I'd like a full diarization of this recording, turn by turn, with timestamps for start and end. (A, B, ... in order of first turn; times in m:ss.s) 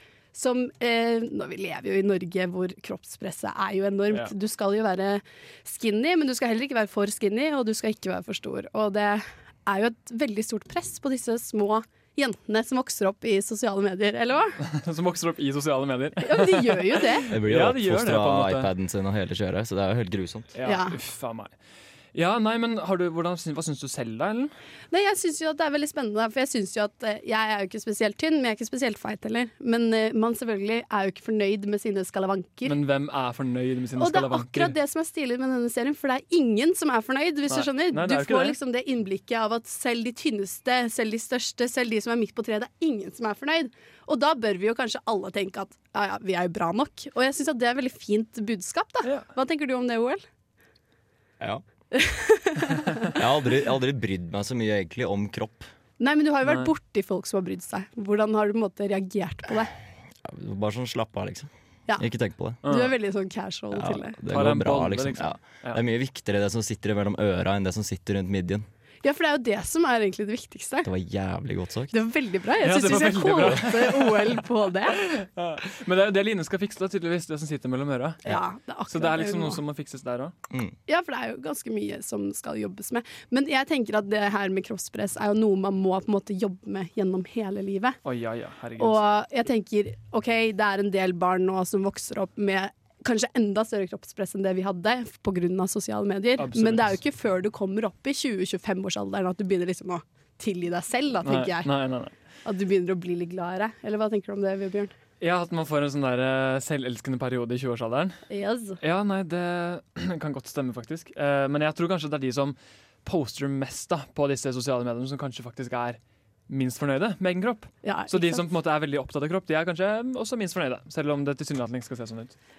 0:00.3-0:14.6 A
0:14.6-0:18.7 B
0:16.2-0:17.3 A
0:17.3-0:20.5 C
0:20.6-0:21.5 B
0:20.6-0:21.0 A
0:22.1-0:24.5 B
0:24.9-0:32.8 A
0:32.6-0:34.8 B
0:34.0-0:50.2 A
0:37.5-0:38.6 B
0:51.9-0:53.1 A
0:53.1-0:55.7 C
0:56.0-0:59.7 A
0:56.4-0:56.7 B
1:00.2-1:02.6 C
1:02.6-1:04.2 A
1:02.6-1:02.9 B
1:03.7-1:08.6 C
1:04.3-1:05.8 B
1:09.0-1:10.9 A
1:10.8-1:12.0 C
1:11.9-1:15.0 A
1:12.6-1:14.4 B
1:15.0-1:18.2 B
1:18.2-1:19.6 A
1:18.9-1:20.3 B
1:20.9-1:28.0 A
1:28.0-1:29.0 B
1:28.8-1:41.7 A
1:36.4-1:37.0 B
1:41.2-1:42.1 B
1:42.4-1:44.9 A
1:45.2-1:48.2 B
1:48.3-1:48.8 A
1:48.8-2:02.4 B
1:57.8-1:58.4 A